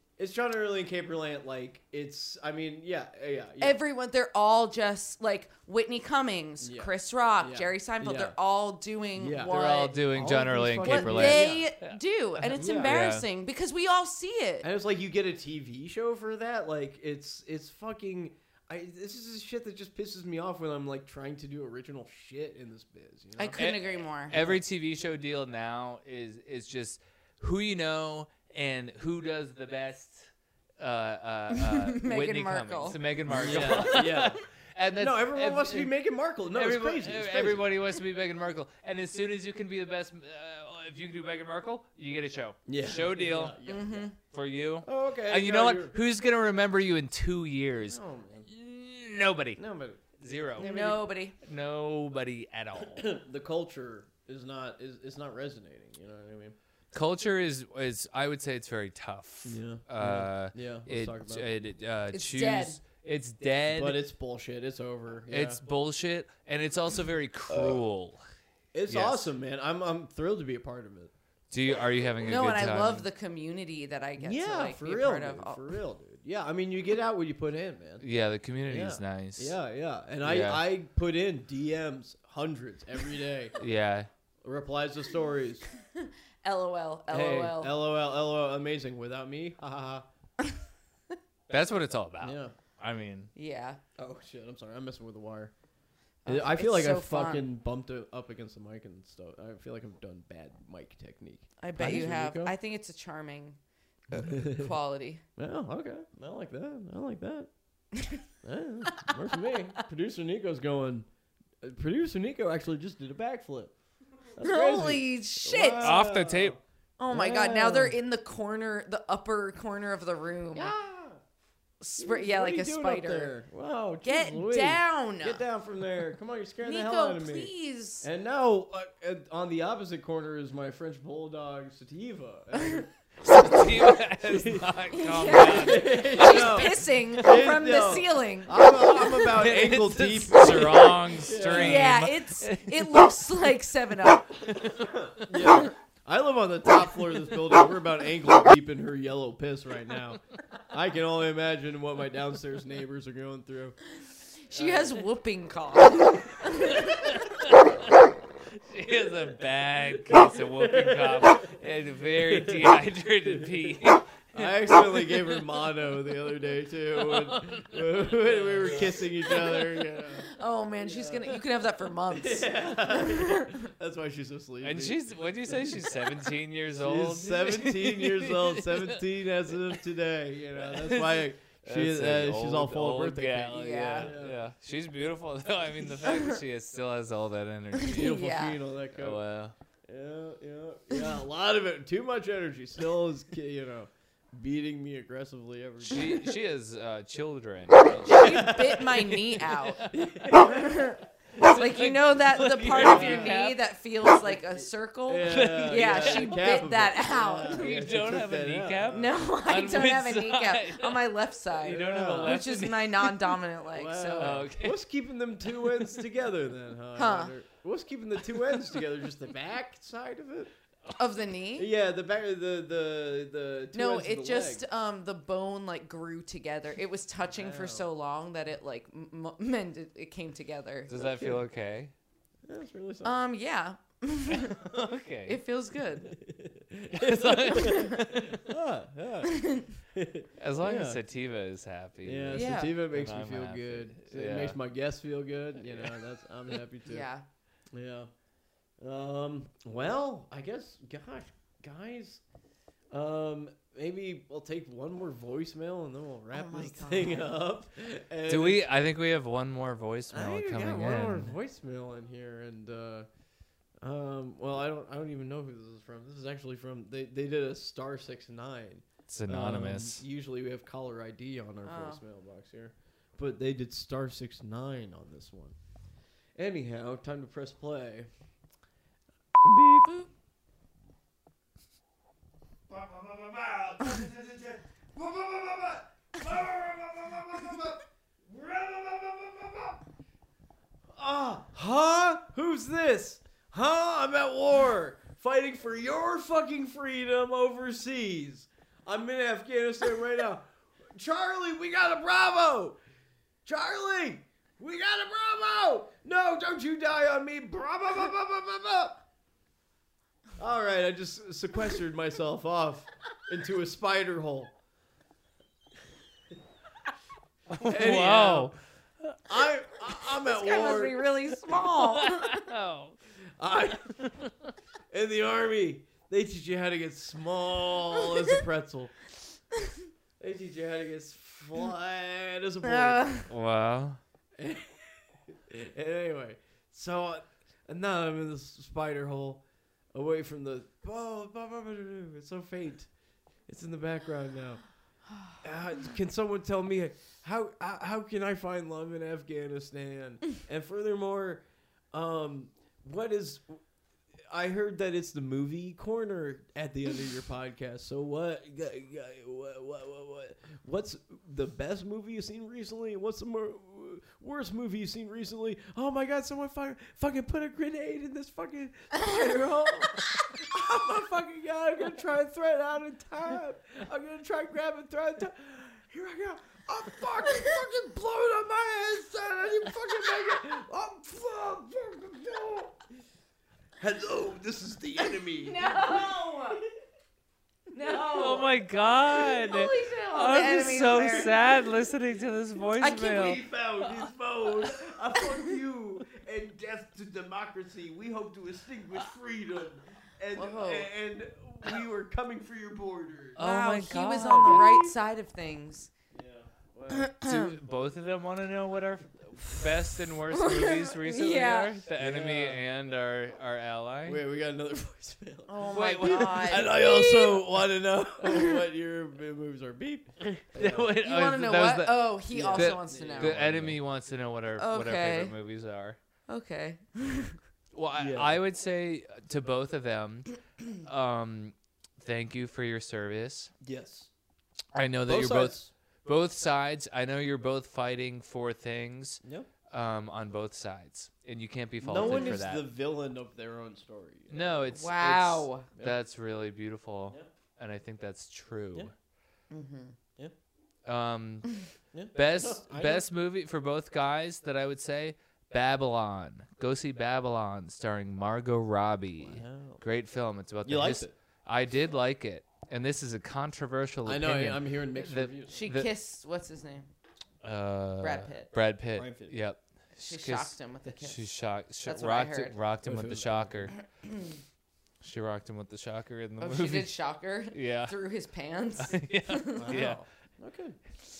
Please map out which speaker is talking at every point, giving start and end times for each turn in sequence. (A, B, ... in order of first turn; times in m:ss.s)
0:00.2-0:03.8 A
0:03.6-0:10.0 B
0:06.6-0:08.4 A
0:09.2-0:11.7 A
0:09.5-0:12.0 C
0:10.8-0:14.7 B
0:12.4-0:13.0 A
0:12.8-0:13.2 C
0:14.6-0:23.6 A
0:23.4-0:24.3 B
0:23.6-0:35.9 C
0:24.3-0:24.6 A
0:31.5-0:33.9 B
0:33.3-0:34.4 A
0:35.0-0:37.8 A
0:36.5-0:43.6 C
0:42.7-0:44.1 A
0:43.6-0:44.2 B
0:44.2-0:49.6 C
0:44.8-0:46.0 A
0:47.8-0:48.5 A
0:49.6-0:50.0 A
0:50.2-0:50.8 C
0:50.5-0:51.0 A
0:50.6-0:51.4 B
0:51.4-0:53.0 C
0:52.7-0:56.6 A
0:56.9-1:04.0 C
0:59.4-1:01.5 A
1:02.1-1:02.8 B
1:03.7-1:05.6 A
1:05.3-1:08.2 C
1:07.5-1:07.8 A
1:08.7-1:11.1 A
1:08.9-1:09.3 C
1:11.5-1:13.1 C
1:12.2-1:15.6 B
1:14.2-1:18.0 A
1:18.0-1:19.6 C
1:18.7-1:23.6 A
1:20.2-1:20.7 C
1:23.6-1:24.1 C
1:24.4-1:25.7 A
1:25.9-1:27.8 B
1:27.1-1:30.0 A
1:31.5-1:33.3 C
1:32.2-1:32.5 A
1:33.3-1:33.8 B
1:34.0-1:35.5 A
1:36.2-1:37.5 B
1:36.2-1:42.5 A
1:41.6-1:43.6 B
1:44.1-1:44.7 A
1:44.1-1:45.2 B
1:45.4-1:47.5 A
1:48.0-1:48.2 B
1:48.4-1:51.1 A
1:48.9-1:49.8 B
1:51.6-1:53.7 A
1:54.4-1:58.0 A
1:54.4-1:55.9 B
1:55.8-1:56.6 C
1:57.0-2:00.7 B
2:00.5-2:01.2 A
2:01.8-2:03.3 B
2:02.0-2:12.9 A
2:04.0-2:05.4 B
2:06.6-2:08.0 B
2:12.5-2:12.8 B
2:13.2-2:17.1 C
2:13.5-2:14.7 A
2:14.9-2:19.4 B
2:15.3-2:22.0 A
2:19.1-2:23.1 C
2:21.4-2:24.5 B
2:24.4-2:25.6 C
2:25.1-2:33.8 A
2:25.4-2:25.7 B
2:34.4-2:37.2 B
2:34.5-2:35.0 A
2:36.8-2:37.5 C
2:38.6-2:45.2 C
2:40.1-2:41.4 A
2:42.3-2:42.7 A
2:44.3-2:50.3 A
2:47.0-2:49.7 C
2:50.3-2:53.6 B
2:50.8-2:51.4 A
2:52.1-2:56.0 A
2:54.6-2:59.0 C
2:56.8-3:04.4 A
3:00.5-3:08.2 C
3:03.5-3:04.1 B
3:06.0-3:06.4 B
3:07.7-3:08.6 B
3:07.9-3:09.2 A
3:08.9-3:09.5 C
3:09.9-3:16.3 A
3:15.8-3:18.5 C
3:18.0-3:27.7 B
3:18.1-3:19.0 A
3:19.4-3:19.9 C
3:19.9-3:21.0 A
3:21.4-3:23.6 C
3:22.7-3:23.4 A
3:24.4-3:29.2 A
3:25.3-3:26.5 C
3:27.5-3:33.4 C
3:28.9-3:34.4 B
3:31.6-3:32.4 A
3:33.7-3:40.5 A
3:34.2-3:34.8 C
3:35.4-3:36.1 C
3:36.9-3:37.3 B
3:38.5-3:38.8 C
3:41.0-3:41.7 B
3:41.5-3:44.6 A
3:43.7-3:50.9 B
3:47.3-3:47.9 A
3:50.9-3:51.9 C
3:51.0-3:51.4 A
3:52.4-3:53.2 A
3:53.0-3:56.1 B
3:54.4-3:55.4 C
3:56.0-4:01.0 A
3:56.9-3:58.4 C
3:57.5-3:58.0 B
3:59.2-3:59.8 B
4:00.4-4:04.6 C
4:02.0-4:07.1 A
4:02.3-4:02.7 B
4:05.7-4:06.0 C
4:06.8-4:07.2 B
4:07.7-4:08.1 A
4:08.8-4:12.2 A
4:12.9-4:18.7 A
4:16.3-4:17.3 B
4:18.3-4:21.3 C
4:20.1-4:23.1 A
4:23.8-4:35.6 A
4:29.1-4:30.0 C
4:31.6-4:32.0 B
4:36.4-4:38.1 A
4:39.4-4:39.9 A
4:42.7-4:49.8 A
4:50.9-5:02.8 A
5:03.4-5:09.0 A
5:10.4-5:14.5 A
5:17.5-5:18.6 C
5:17.6-5:18.5 A
5:19.2-5:21.0 A
5:20.2-5:22.4 B
5:21.6-5:23.0 C
5:23.4-5:24.1 A
5:24.9-5:28.9 A
5:30.2-5:33.2 A
5:32.6-5:33.3 B
5:33.3-5:34.0 C
5:34.4-5:42.9 A
5:43.5-5:44.6 A
5:45.3-5:53.6 A
5:54.3-6:22.7 A
6:23.8-6:26.0 A
6:25.4-6:26.6 B
6:27.7-6:31.6 B
6:28.0-6:33.4 C
6:32.8-6:33.4 B
6:32.8-6:43.4 A
6:40.3-6:40.9 B
6:43.4-6:44.9 C
6:43.4-6:45.9 B
6:44.4-6:44.8 A
6:46.1-6:47.1 A
6:46.9-6:47.5 B
6:47.2-6:54.2 C
6:50.3-6:51.7 B
6:52.0-6:52.6 A
6:54.0-7:00.9 A
6:55.5-6:57.4 B
6:55.7-6:56.7 C
6:58.2-6:58.6 B
7:00.2-7:06.0 C
7:01.0-7:03.4 B
7:02.3-7:03.8 A
7:04.6-7:05.3 B
7:06.3-7:07.4 B
7:07.7-7:13.5 C
7:08.0-7:08.4 A
7:13.6-7:14.1 A
7:14.7-7:22.6 C
7:15.1-7:15.7 A
7:19.2-7:19.5 A
7:21.8-7:24.7 A
7:21.9-7:22.4 B
7:24.3-7:28.9 C
7:24.7-7:25.7 B
7:29.5-7:30.0 B
7:30.8-7:45.9 C
7:31.9-7:33.1 A
7:39.2-7:39.8 A
7:40.6-7:41.1 A
7:44.0-7:45.6 A
7:45.5-7:46.9 B
7:47.4-7:53.7 C
7:48.0-7:48.5 B
7:48.9-7:49.4 A
7:50.0-7:51.3 B
7:51.8-7:52.6 B
7:52.8-7:53.7 A
7:54.0-7:54.3 B
7:55.0-7:57.0 C
7:56.4-7:59.8 B
7:57.5-7:57.9 C
7:58.8-8:00.0 C
7:59.6-8:00.8 A